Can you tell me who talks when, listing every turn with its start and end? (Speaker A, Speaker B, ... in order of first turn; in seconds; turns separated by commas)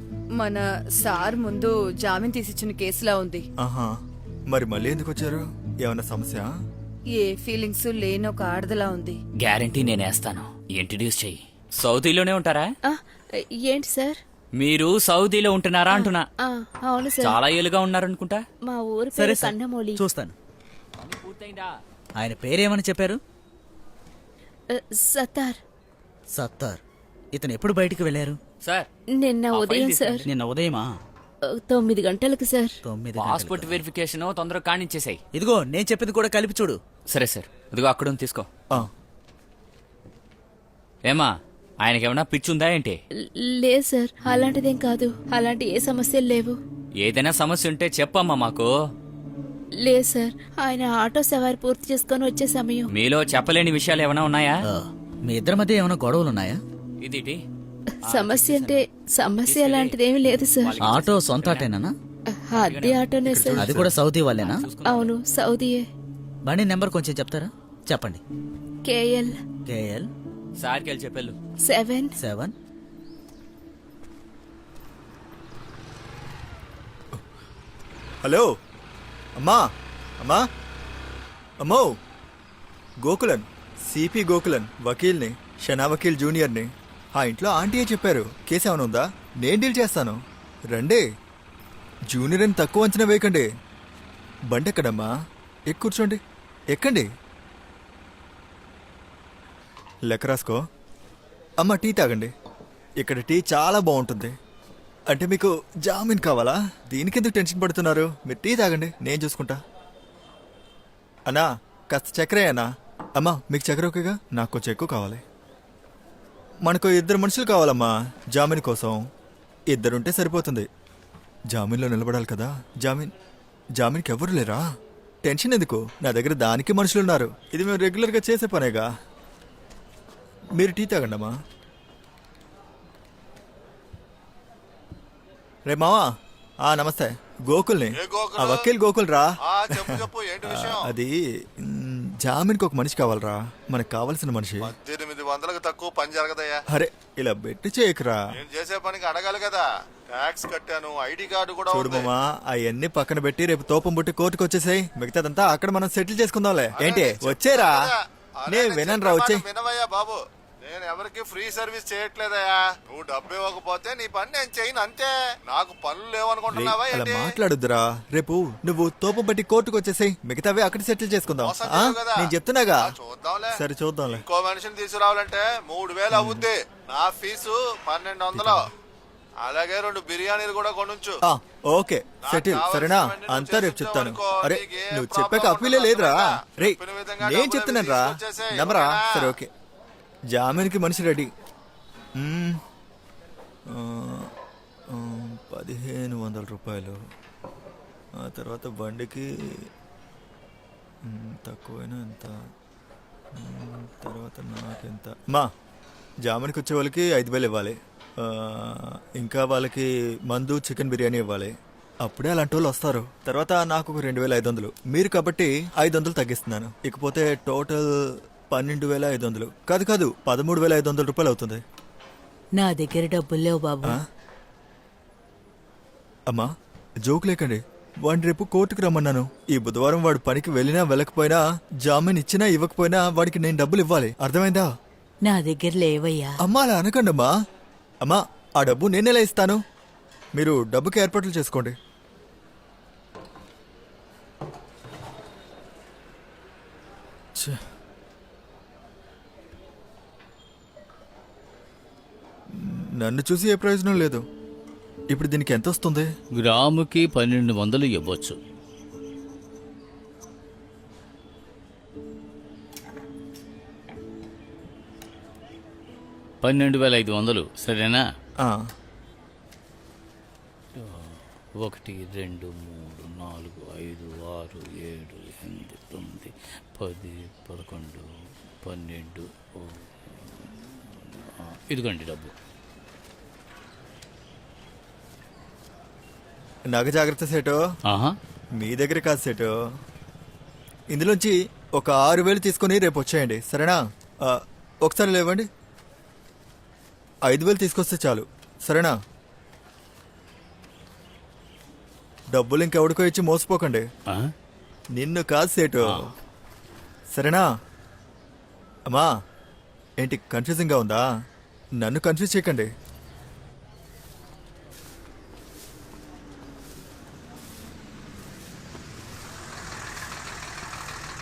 Speaker A: 0.4-3.4, Speaker B: 3.6-3.9, Speaker B: 4.5-6.5, Speaker A: 7.1-9.2, Speaker C: 9.4-12.7, Speaker D: 13.6-14.2, Speaker C: 14.6-16.2, Speaker D: 15.9-17.4, Speaker C: 17.2-18.4, Speaker D: 18.7-20.0, Speaker E: 19.1-20.3, Speaker C: 21.0-21.8, Speaker E: 22.2-23.2, Speaker D: 24.7-25.6, Speaker E: 26.3-26.8, Speaker E: 27.3-28.4, Speaker D: 29.2-30.2, Speaker C: 29.5-30.2, Speaker E: 30.2-30.9, Speaker D: 31.6-32.8, Speaker E: 32.8-33.8, Speaker C: 33.2-35.2, Speaker E: 35.3-36.8, Speaker C: 37.1-38.5, Speaker C: 41.0-43.0, Speaker D: 43.6-46.6, Speaker C: 47.0-48.7, Speaker D: 49.8-52.9, Speaker C: 52.9-54.6, Speaker E: 54.7-56.6, Speaker C: 57.0-57.5, Speaker D: 58.0-60.8, Speaker C: 58.0-58.8, Speaker C: 59.4-60.0, Speaker C: 60.6-61.7, Speaker E: 60.8-62.0, Speaker D: 62.4-63.8, Speaker C: 62.6-63.1, Speaker B: 63.3-64.0, Speaker E: 63.6-64.7, Speaker C: 64.4-65.1, Speaker D: 64.9-65.9, Speaker E: 66.5-68.2, Speaker D: 68.8-69.4, Speaker E: 69.7-70.1, Speaker C: 70.6-71.4, Speaker D: 71.7-72.1, Speaker E: 72.2-72.5, Speaker B: 81.6-81.9, Speaker B: 83.0-90.2, Speaker B: 90.7-91.0, Speaker B: 92.1-93.5, Speaker B: 94.5-95.1, Speaker B: 95.7-96.2, Speaker B: 96.7-97.1, Speaker B: 100.1-100.6, Speaker B: 101.6-102.3, Speaker B: 103.0-104.3, Speaker B: 105.1-109.6, Speaker B: 111.3-112.7, Speaker B: 113.2-115.2, Speaker B: 116.7-119.0, Speaker B: 119.7-120.7, Speaker B: 121.5-123.1, Speaker B: 123.8-124.7, Speaker B: 125.2-128.9, Speaker B: 130.6-131.3, Speaker B: 135.7-136.1, Speaker B: 136.7-144.7, Speaker F: 138.0-138.7, Speaker F: 139.4-140.9, Speaker F: 144.7-146.6, Speaker B: 146.7-148.2, Speaker F: 148.4-152.1, Speaker B: 151.7-157.8, Speaker F: 156.8-167.2, Speaker B: 158.5-159.4, Speaker B: 166.5-172.9, Speaker F: 171.4-173.6, Speaker B: 173.5-174.2, Speaker F: 174.1-178.6, Speaker B: 176.1-176.5, Speaker F: 179.4-181.2, Speaker B: 181.2-189.5, Speaker F: 182.2-189.4, Speaker B: 190.3-191.3, Speaker B: 192.2-192.6, Speaker B: 193.7-194.3, Speaker B: 194.9-197.0, Speaker B: 198.2-199.3, Speaker B: 201.1-202.3, Speaker B: 203.4-205.5, Speaker B: 206.2-217.9, Speaker B: 218.5-221.6, Speaker G: 222.6-223.9, Speaker B: 227.1-234.7, Speaker G: 235.2-236.3, Speaker B: 236.4-237.3, Speaker B: 238.0-239.6, Speaker B: 240.4-241.8, Speaker B: 252.6-254.2, Speaker B: 255.1-256.1, Speaker H: 256.4-258.4, Speaker H: 266.4-268.0, Speaker B: 268.4-268.7, Speaker H: 270.8-278.1, Speaker H: 278.6-282.3, Speaker B: 286.7-287.6, Speaker H: 287.9-288.1, Speaker B: 288.6-289.5, Speaker B: 290.9-295.5, Speaker B: 297.2-298.9, Speaker B: 302.3-303.9, Speaker B: 304.9-306.0, Speaker B: 307.1-307.5, Speaker B: 310.0-311.0, Speaker B: 311.8-312.7